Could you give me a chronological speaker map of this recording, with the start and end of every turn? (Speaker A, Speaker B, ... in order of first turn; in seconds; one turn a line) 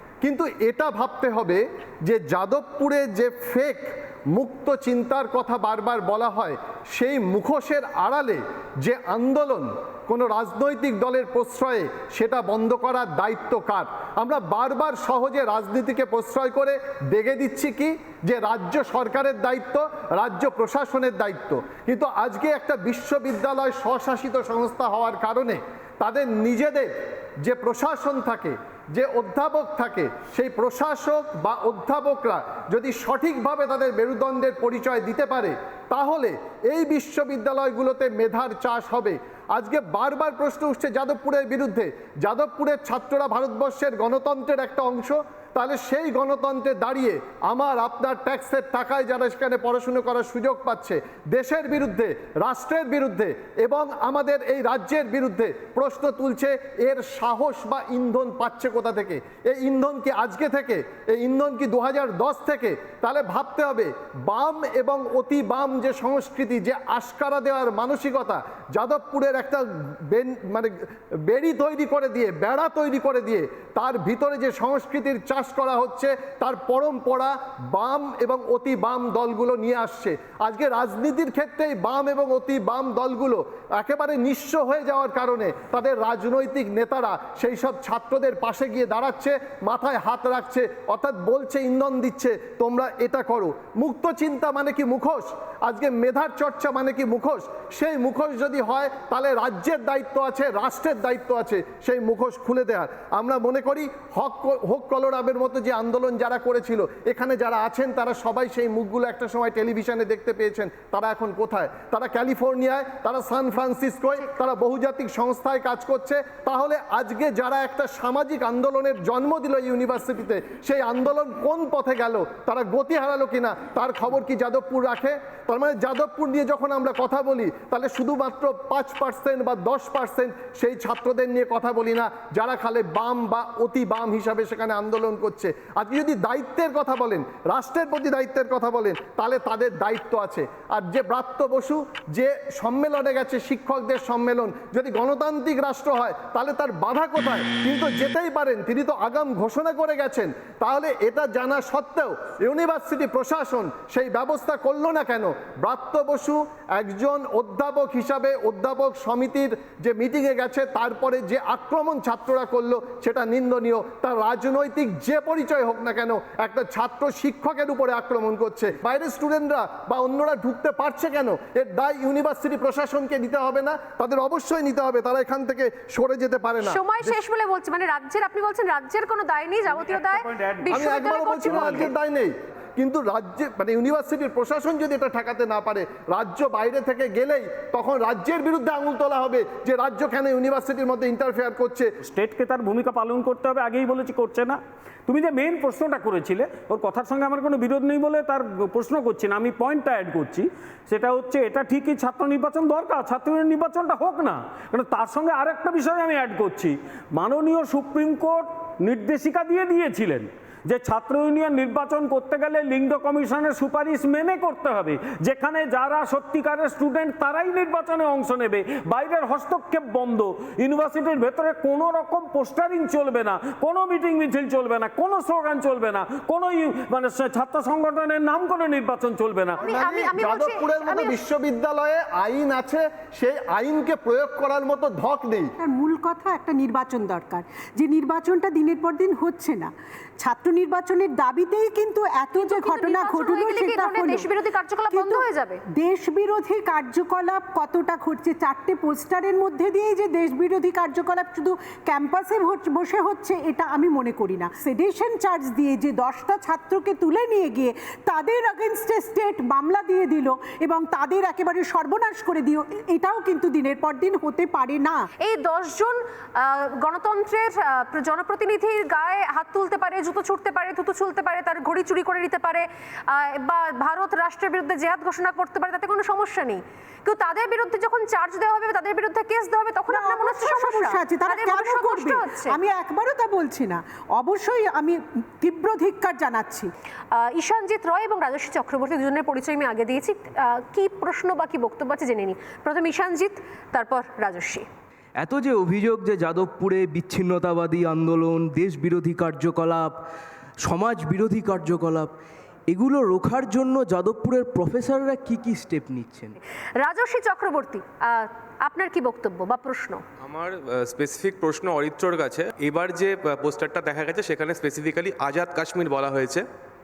Speaker A: 0.2-177.2
Speaker B: 176.6-181.9
Speaker A: 180.7-191.9
Speaker C: 192.0-229.6
Speaker B: 229.6-231.2
Speaker A: 229.6-235.5
Speaker D: 235.6-244.3
Speaker B: 242.3-245.6
Speaker D: 244.9-265.0
Speaker B: 265.2-282.6
Speaker D: 279.9-286.7
Speaker B: 287.1-294.6
Speaker E: 295.2-300.0
Speaker E: 300.6-302.1
Speaker E: 302.7-306.3
Speaker B: 306.8-310.0
Speaker F: 310.2-316.4